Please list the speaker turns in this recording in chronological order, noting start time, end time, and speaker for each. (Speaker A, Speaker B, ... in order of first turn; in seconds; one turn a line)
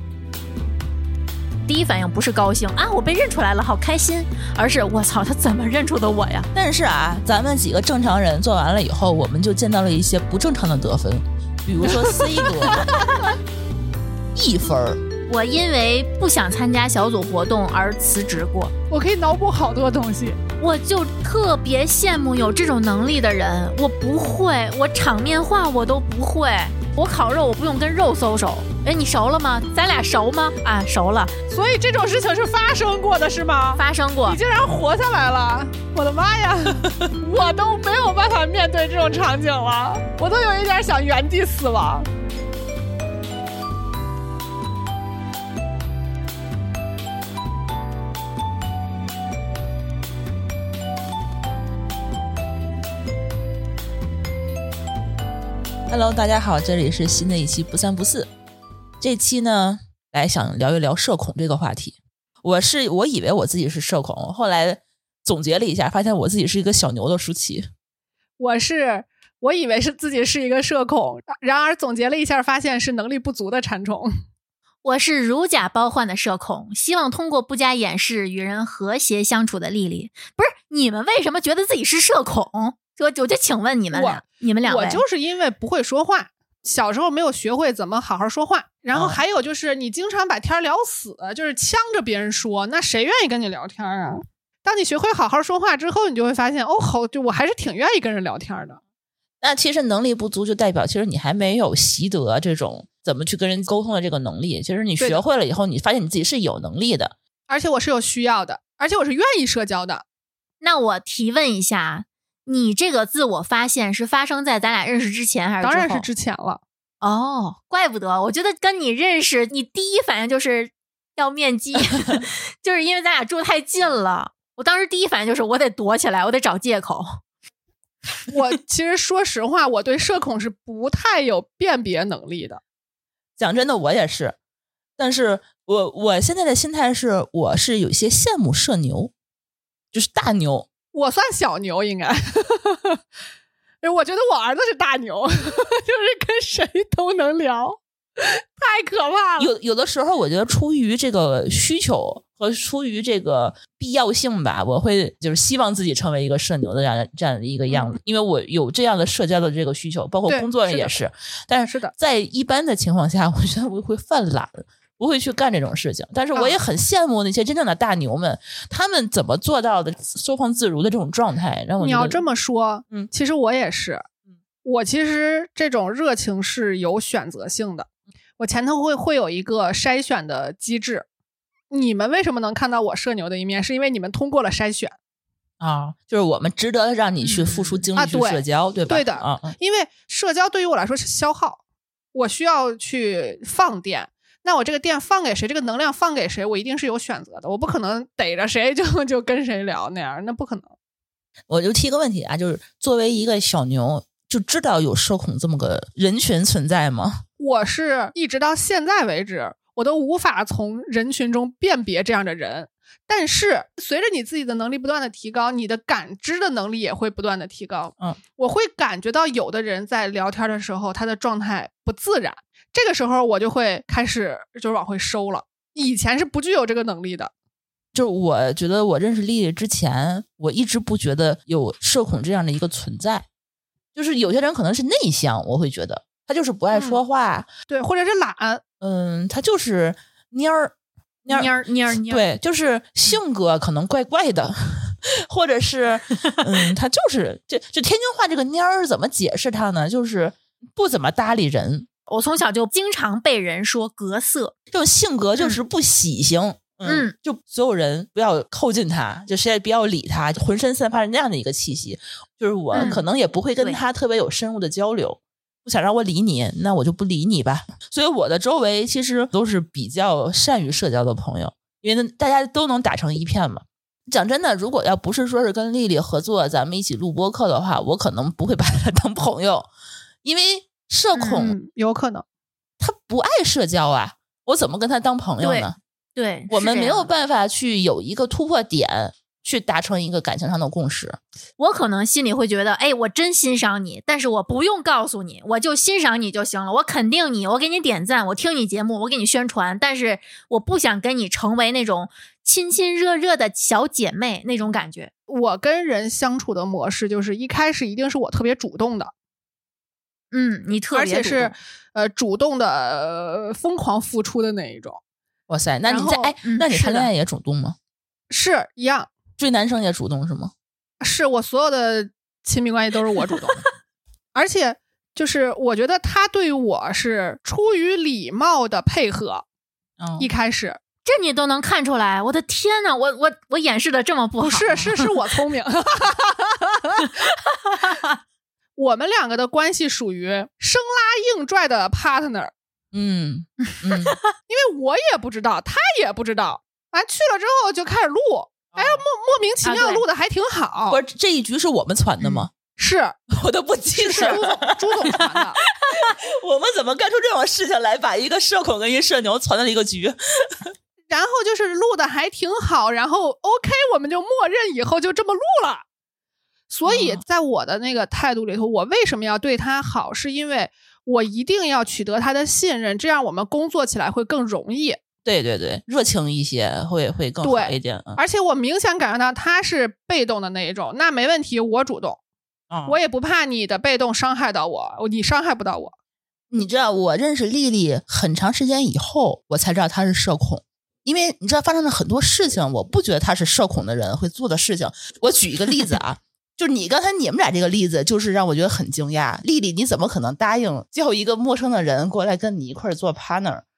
Speaker A: 1.6-6.5
Speaker B: 6.5-12.9
Speaker C: 11.8-13.3
Speaker B: 14.3-15.0
Speaker A: 15.3-18.7
Speaker C: 18.9-20.4
Speaker A: 20.6-31.3
Speaker C: 31.5-42.1
Speaker A: 33.8-34.4
Speaker B: 55.9-58.3
Speaker B: 59.0-67.7
Speaker C: 68.4-74.2
Speaker A: 74.8-85.0
Speaker C: 83.9-98.8
Speaker B: 88.9-89.2
Speaker B: 99.4-107.1
Speaker C: 107.5-110.0
Speaker A: 110.6-116.1
Speaker C: 115.6-116.6
Speaker A: 117.0-127.2
Speaker C: 128.3-132.6
Speaker B: 133.4-134.3
Speaker B: 135.0-139.1
Speaker B: 139.9-140.7
Speaker C: 140.9-143.0
Speaker C: 143.8-149.5
Speaker B: 149.4-172.2
Speaker C: 160.3-160.9
Speaker C: 161.7-161.9
Speaker C: 171.8-174.0
Speaker C: 174.6-177.9
Speaker C: 178.4-181.1
Speaker C: 181.7-184.9
Speaker B: 185.6-189.5
Speaker A: 187.2-187.8
Speaker C: 187.9-191.6
Speaker C: 192.1-200.7
Speaker B: 201.5-207.2
Speaker C: 207.4-227.3
Speaker B: 227.9-233.2
Speaker B: 233.9-237.5
Speaker C: 236.7-237.0
Speaker C: 237.7-238.6
Speaker B: 238.8-241.5
Speaker A: 241.3-242.2
Speaker B: 242.0-251.9
Speaker A: 252.1-254.5
Speaker B: 254.7-279.7
Speaker A: 256.9-257.1
Speaker A: 262.7-263.0
Speaker B: 280.2-281.6
Speaker A: 281.1-281.5
Speaker C: 281.3-282.2
Speaker B: 282.8-285.8
Speaker A: 285.4-287.1
Speaker B: 286.5-291.2
Speaker A: 291.6-305.1
Speaker C: 305.3-309.1
Speaker A: 310.3-311.5
Speaker C: 310.9-315.0
Speaker B: 315.5-317.8
Speaker C: 315.8-317.1
Speaker A: 316.4-316.7
Speaker C: 318.3-319.1
Speaker B: 319.4-320.5
Speaker C: 321.0-323.6
Speaker C: 324.3-329.4
Speaker B: 330.0-330.3
Speaker C: 330.2-330.8
Speaker A: 331.0-334.8
Speaker C: 334.4-337.1
Speaker C: 338.8-342.5
Speaker B: 342.9-344.1
Speaker C: 344.5-351.0
Speaker B: 348.7-349.0
Speaker A: 349.6-350.0
Speaker B: 350.9-352.5
Speaker C: 352.8-353.2
Speaker B: 353.3-360.7
Speaker C: 354.0-355.6
Speaker C: 361.1-365.8
Speaker C: 366.7-375.0
Speaker B: 366.9-367.2
Speaker B: 375.2-378.2
Speaker C: 377.4-382.2
Speaker B: 382.7-383.0
Speaker C: 382.9-385.9
Speaker B: 386.5-403.6